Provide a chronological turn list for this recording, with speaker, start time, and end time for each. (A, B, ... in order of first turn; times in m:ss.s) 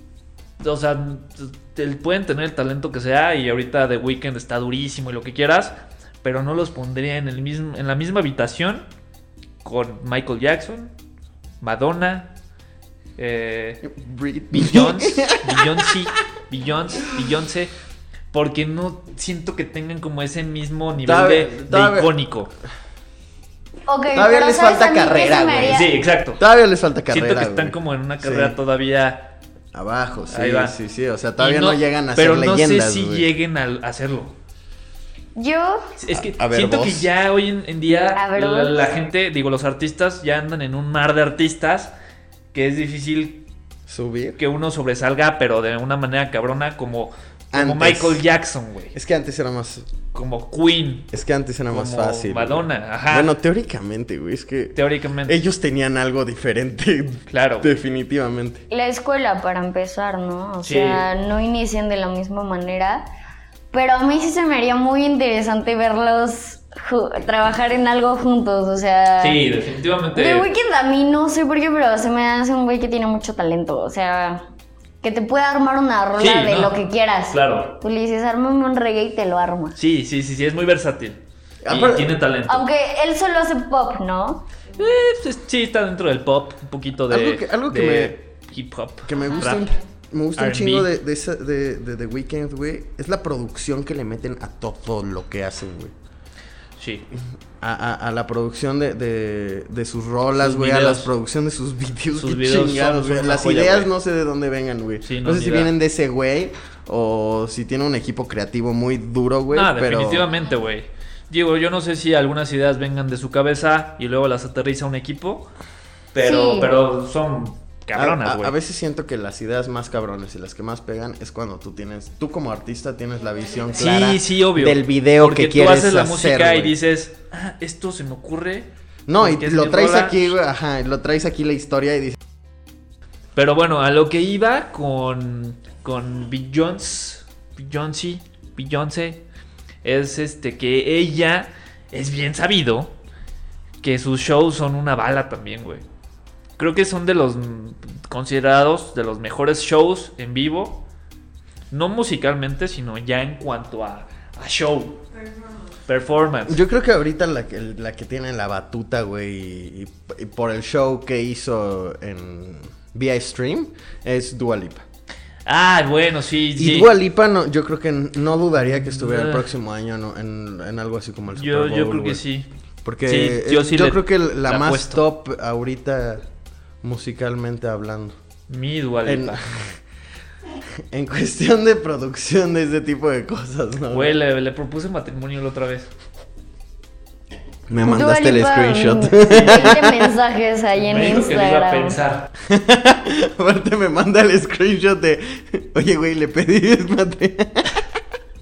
0:00.6-0:08.8 A
0:09.6-0:10.9 A
0:11.6-0:12.3 A
0:13.2-0:13.9 A
0:13.8-0:15.9 B
0:14.5-0:17.7 A
0:18.3-0:22.5 A
0:21.0-0:22.1 B
0:23.9-0:25.9 C
0:24.1-0:28.5 B
0:25.6-0:26.4 A
0:27.1-0:29.3 A
0:29.7-0:33.2 B
0:30.3-0:30.7 A
0:31.4-0:34.3 A
0:35.4-0:35.9 C
0:36.0-0:41.9 A
0:36.2-0:37.1 B
0:38.1-0:38.9 C
0:42.5-0:43.4 A
0:43.9-0:44.4 B
0:44.4-0:48.9 A
0:47.5-0:48.2 B
0:48.9-0:49.9 B
0:50.1-0:51.1 A
0:51.1-0:58.6 B
0:51.7-0:53.3 A
0:54.7-0:55.4 A
0:57.3-0:57.7 A
0:58.7-1:03.0 C
1:00.6-1:01.0 A
1:03.7-1:09.4 C
1:09.2-1:10.5 A
1:10.1-1:14.4 C
1:15.0-1:19.8 C
1:16.2-1:16.8 A
1:17.3-1:17.7 A
1:19.8-1:22.6 A
1:21.6-1:22.2 B
1:22.5-1:24.5 C
1:24.8-1:29.8 A
1:27.1-1:28.2 B
1:29.0-1:35.9 B
1:30.4-1:30.9 A
1:36.8-1:37.0 A
1:37.6-1:50.3 B
1:40.4-1:41.1 A
1:42.1-1:43.9 A
1:45.0-1:45.7 A
1:49.5-1:55.5 A
1:56.1-1:58.5 A
1:56.2-1:56.7 C
1:57.9-2:06.7 B
2:03.8-2:10.3 A
2:09.1-2:12.2 B
2:13.3-2:19.2 A
2:19.8-2:22.9 A
2:23.8-2:25.8 A
2:26.6-2:30.8 A
2:31.7-2:35.0 A
2:35.9-2:36.6 A
2:36.4-2:44.8 B
2:45.4-2:46.9 A
2:46.6-2:52.2 B
2:48.6-2:49.5 A
2:51.3-2:52.5 A
2:52.8-2:56.2 B
2:53.0-2:55.0 A
2:56.8-2:58.1 B
2:58.5-2:59.4 A
2:59.0-2:59.8 B
3:00.9-3:04.1 B
3:03.9-3:05.9 A
3:07.7-3:10.1 B
3:07.8-3:12.0 C
3:09.3-3:09.8 A
3:10.8-3:12.3 A
3:12.4-3:17.8 B